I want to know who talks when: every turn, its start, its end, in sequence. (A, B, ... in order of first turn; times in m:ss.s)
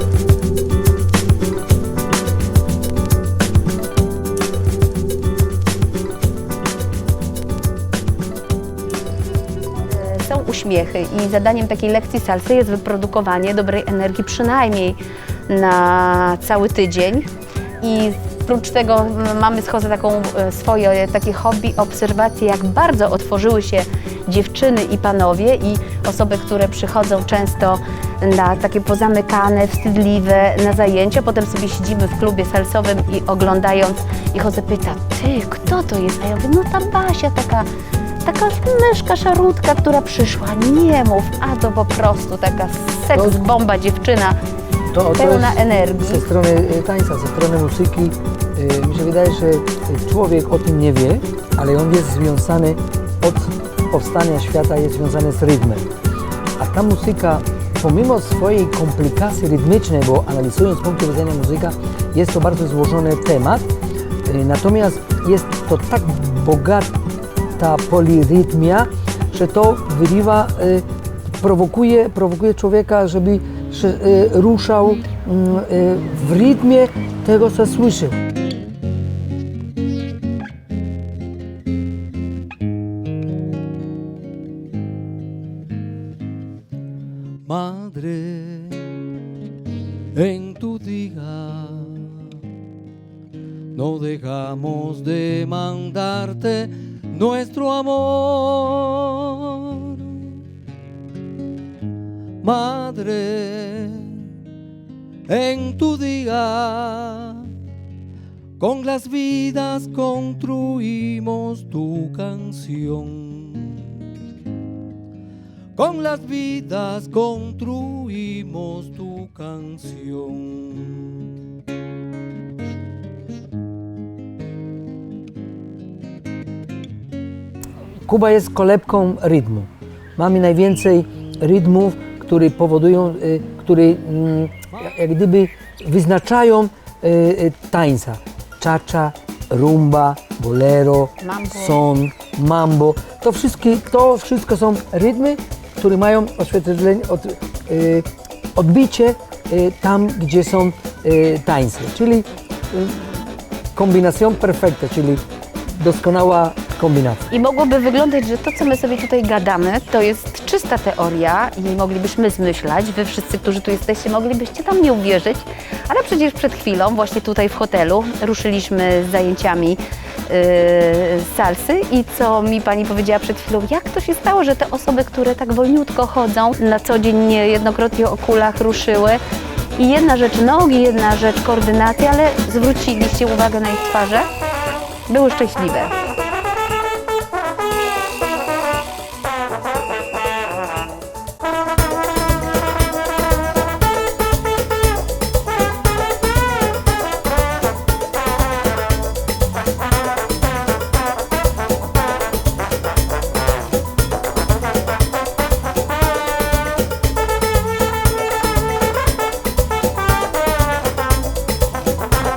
0:09.8-0:17.3 A
0:17.8-0:37.7 A
0:38.2-0:44.4 A
0:43.1-0:43.4 B
0:44.9-0:55.8 B
0:45.0-0:46.3 A
0:56.6-1:03.7 B
1:04.3-1:06.9 B
1:07.6-1:10.8 B
1:11.4-1:18.2 B
1:27.4-1:28.9 C
1:30.2-1:32.3 C
1:33.7-1:40.2 C
1:42.4-1:44.3 C
1:45.3-1:47.5 C
1:48.6-1:54.0 C
1:55.8-2:01.3 C
2:08.0-2:33.2 B
2:21.2-2:21.8 A
2:33.7-2:37.3 B
2:37.3-2:59.2 A
2:59.8-3:04.3 A
3:05.1-3:06.0 A